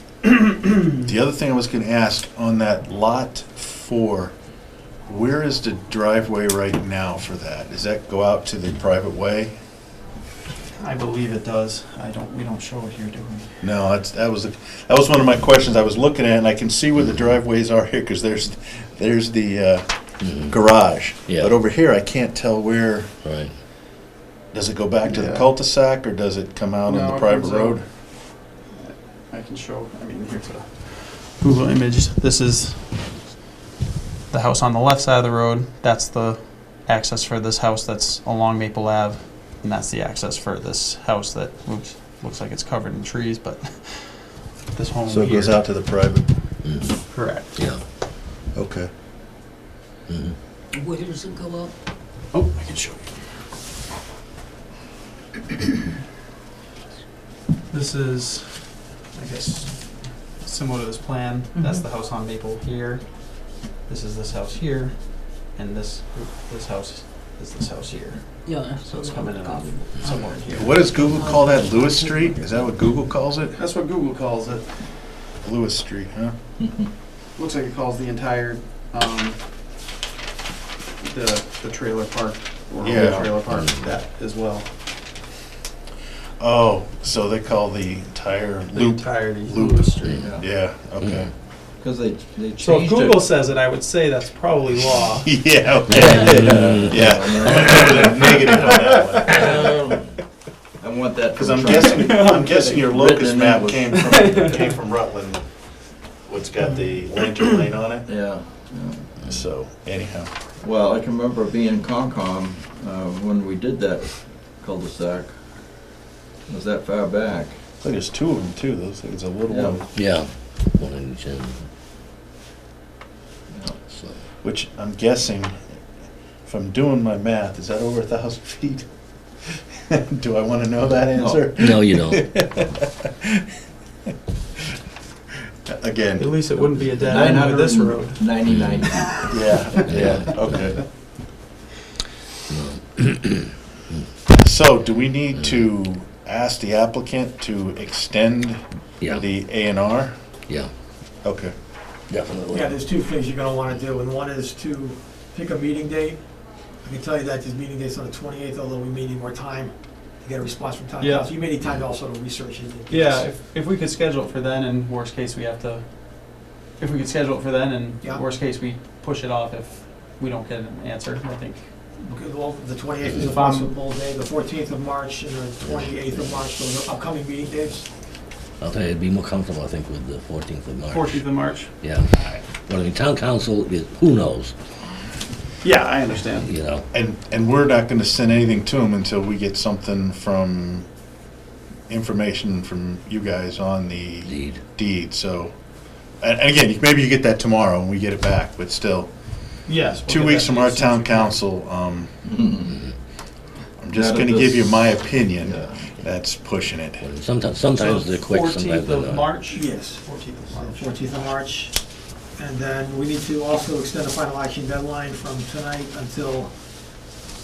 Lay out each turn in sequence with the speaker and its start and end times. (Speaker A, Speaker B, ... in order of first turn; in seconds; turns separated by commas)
Speaker A: 0.2-1.0, Speaker B: 1.0-4.3, Speaker B: 5.0-9.6, Speaker A: 10.8-13.6, Speaker B: 13.6-23.1, Speaker C: 20.2-20.6, Speaker C: 21.3-21.5, Speaker C: 23.2-23.5, Speaker B: 24.5-27.9, Speaker A: 25.0-25.5, Speaker A: 26.9-27.8, Speaker A: 28.4-33.1, Speaker A: 34.3-45.8, Speaker B: 45.1-46.3, Speaker C: 46.6-47.8, Speaker A: 47.0-47.7, Speaker B: 48.5-48.9, Speaker C: 50.1-50.4, Speaker D: 50.8-51.7, Speaker A: 52.3-53.3, Speaker A: 57.7-70.8, Speaker D: 61.6-61.8, Speaker D: 68.5-69.8, Speaker B: 70.5-73.6, Speaker D: 70.8-72.4, Speaker A: 73.5-74.9, Speaker B: 75.4-76.3, Speaker A: 77.3-79.4, Speaker A: 81.0-84.7, Speaker B: 82.8-83.3, Speaker C: 83.5-83.9, Speaker B: 86.4-91.3, Speaker A: 88.7-90.2, Speaker C: 90.0-90.3, Speaker E: 90.2-90.5, Speaker E: 91.8-93.2, Speaker A: 92.6-95.6, Speaker B: 95.2-99.7, Speaker C: 95.9-97.0, Speaker E: 96.2-98.3, Speaker A: 98.2-99.5, Speaker E: 99.3-100.1, Speaker E: 100.8-102.2, Speaker B: 101.3-105.6, Speaker A: 101.8-103.0, Speaker E: 103.0-103.9, Speaker A: 103.9-104.8, Speaker B: 106.2-108.1, Speaker E: 108.0-109.3, Speaker B: 109.2-110.3, Speaker E: 110.6-115.7, Speaker E: 116.5-117.6, Speaker B: 117.8-119.9, Speaker E: 119.5-119.8, Speaker C: 119.9-121.7, Speaker E: 123.5-123.8, Speaker C: 123.8-124.2, Speaker B: 124.4-125.8, Speaker B: 126.4-128.9, Speaker B: 129.5-133.4, Speaker E: 131.1-131.5, Speaker C: 131.6-132.3, Speaker B: 135.7-136.4, Speaker A: 136.2-139.2, Speaker E: 137.1-139.3, Speaker C: 138.4-138.8, Speaker B: 139.3-140.8, Speaker A: 139.8-140.1, Speaker C: 139.8-140.6, Speaker C: 142.5-144.1, Speaker B: 144.3-150.1, Speaker B: 151.2-151.5, Speaker C: 152.1-152.8, Speaker F: 152.5-163.3, Speaker A: 161.0-161.4, Speaker A: 162.9-171.7, Speaker F: 172.0-177.9, Speaker A: 173.2-173.8, Speaker C: 175.6-176.4, Speaker C: 178.6-184.5, Speaker A: 180.9-182.3, Speaker A: 185.6-186.6, Speaker C: 186.4-186.9, Speaker B: 186.9-190.9, Speaker B: 191.9-195.5, Speaker C: 194.2-194.6, Speaker B: 196.2-199.1, Speaker A: 199.7-201.4, Speaker B: 200.1-202.2, Speaker E: 202.2-202.8, Speaker B: 203.8-207.0, Speaker E: 203.9-205.8, Speaker C: 207.0-209.4, Speaker A: 207.7-211.3, Speaker F: 209.5-217.1